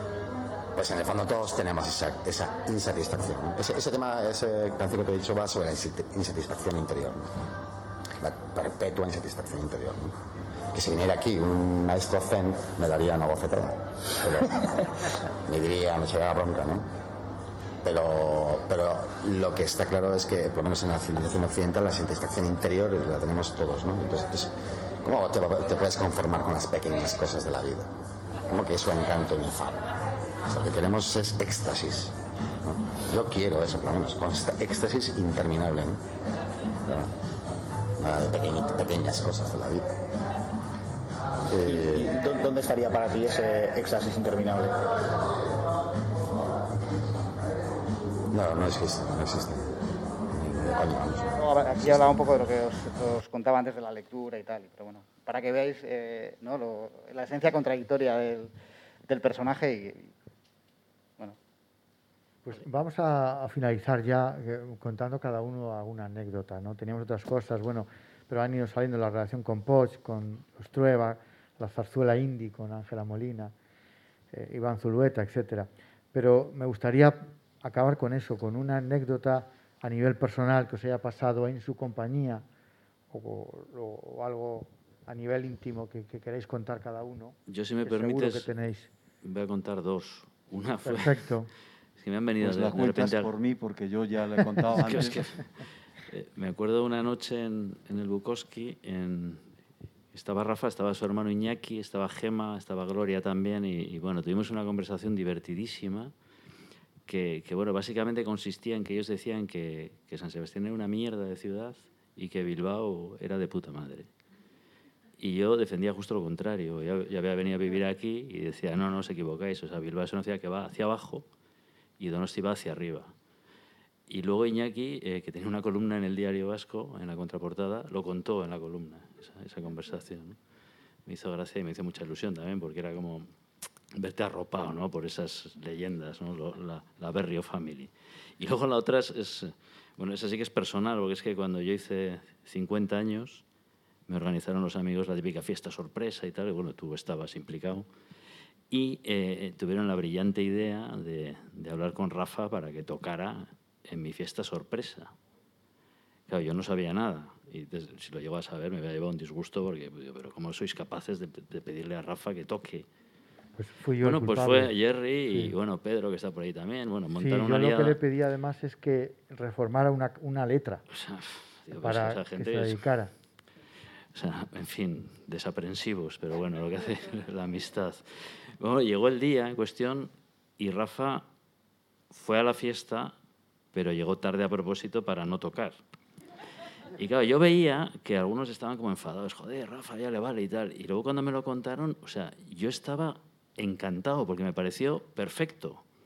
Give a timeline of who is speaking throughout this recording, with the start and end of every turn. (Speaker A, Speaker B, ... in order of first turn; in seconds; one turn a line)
Speaker A: 0.7-7.5
Speaker A: 8.2-10.2
Speaker A: 10.7-16.9
Speaker A: 17.8-36.0
Speaker A: 36.8-37.1
Speaker A: 38.0-39.9
Speaker A: 41.5-42.1
Speaker B: 41.6-44.8
Speaker A: 48.3-52.1
Speaker C: 51.4-58.5
Speaker C: 59.0-60.1
Speaker D: 62.4-73.5
Speaker D: 74.3-82.4
Speaker D: 83.1-88.9
Speaker E: 87.5-88.5
Speaker E: 89.2-91.3
Speaker D: 90.8-91.5
Speaker E: 92.0-93.3
Speaker F: 92.4-95.3
Speaker E: 94.7-95.5
Speaker E: 96.1-99.5
Speaker E: 100.1-106.1
Speaker E: 107.1-114.1
Speaker E: 115.2-121.2
Speaker E: 122.0-123.1
Speaker E: 124.1-130.4
Speaker E: 131.1-133.3
Speaker E: 133.9-143.4
Speaker E: 144.1-147.9
Speaker E: 148.7-155.1
Speaker E: 156.3-162.8
Speaker D: 163.6-164.7
Speaker E: 164.0-168.0
Speaker D: 167.2-170.8
Speaker E: 170.9-172.8
Speaker D: 171.8-173.1
Speaker E: 174.1-181.3
Speaker E: 182.1-183.1
Speaker E: 183.7-185.8
Speaker E: 187.0-195.8